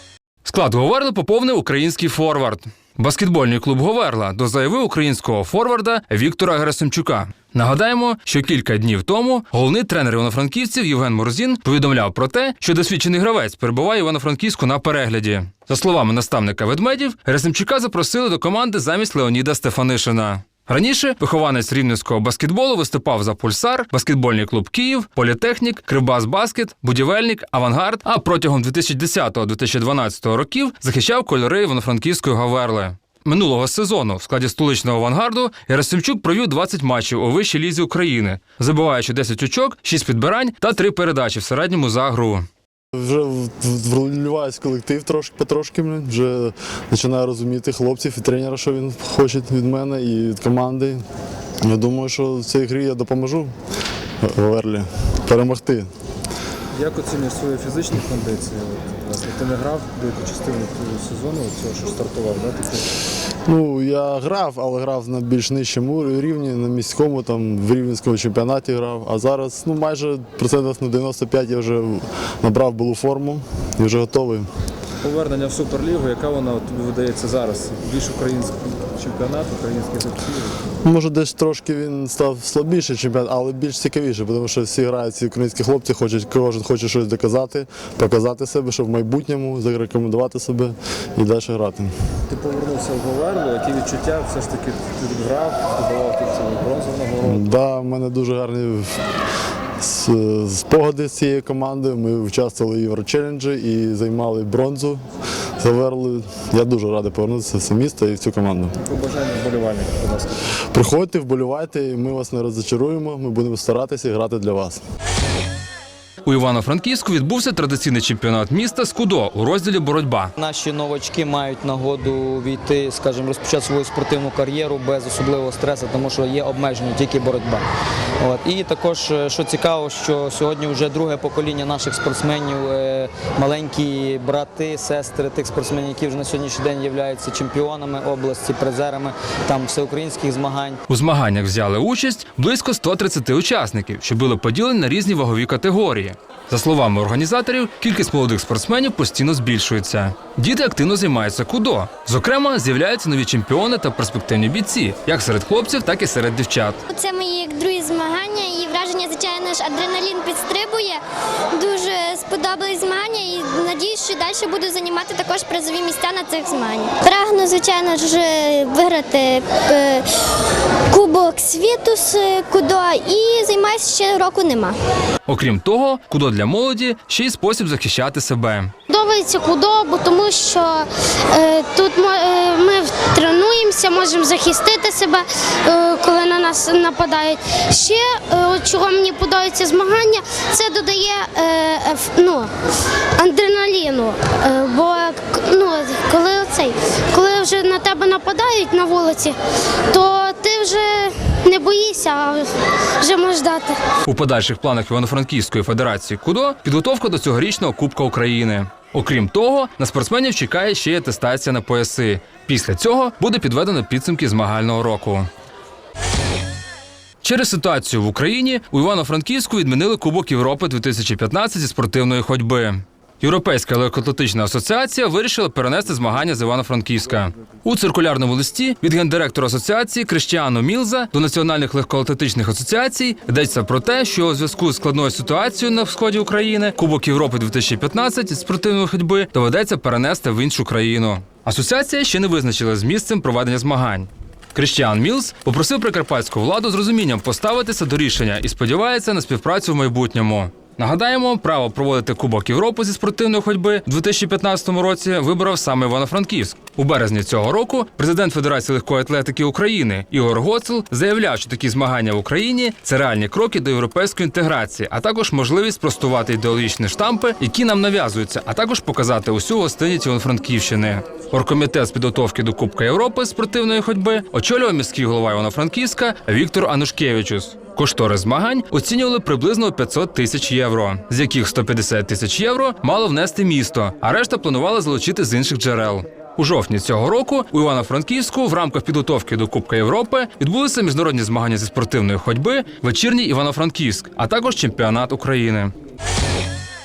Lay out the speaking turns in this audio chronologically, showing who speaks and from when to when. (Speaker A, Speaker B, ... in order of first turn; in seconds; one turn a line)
Speaker A: 0.4-42.5
Speaker B: 42.9-51.0
Speaker B: 51.6-53.5
Speaker B: 54.2-55.9
Speaker C: 56.7-62.9
Speaker B: 63.5-74.5
Speaker C: 75.0-80.6
Speaker B: 80.8-91.9
Speaker C: 92.3-97.5
Speaker B: 97.2-98.9
Speaker B: 99.8-105.0
Speaker B: 105.6-108.8
Speaker C: 108.8-110.3
Speaker B: 110.7-114.8
Speaker A: 116.2-120.3
Speaker D: 120.4-127.6
Speaker D: 128.2-140.8
Speaker A: 140.9-156.8
Speaker E: 156.9-161.0
Speaker E: 161.5-170.1
Speaker E: 170.9-174.8
Speaker A: 175.3-178.7
Speaker F: 178.9-192.5
Speaker F: 193.2-199.3
Speaker F: 199.9-202.5
Speaker F: 203.0-203.8
Speaker A: 204.0-215.3
Speaker A: 217.2-295.7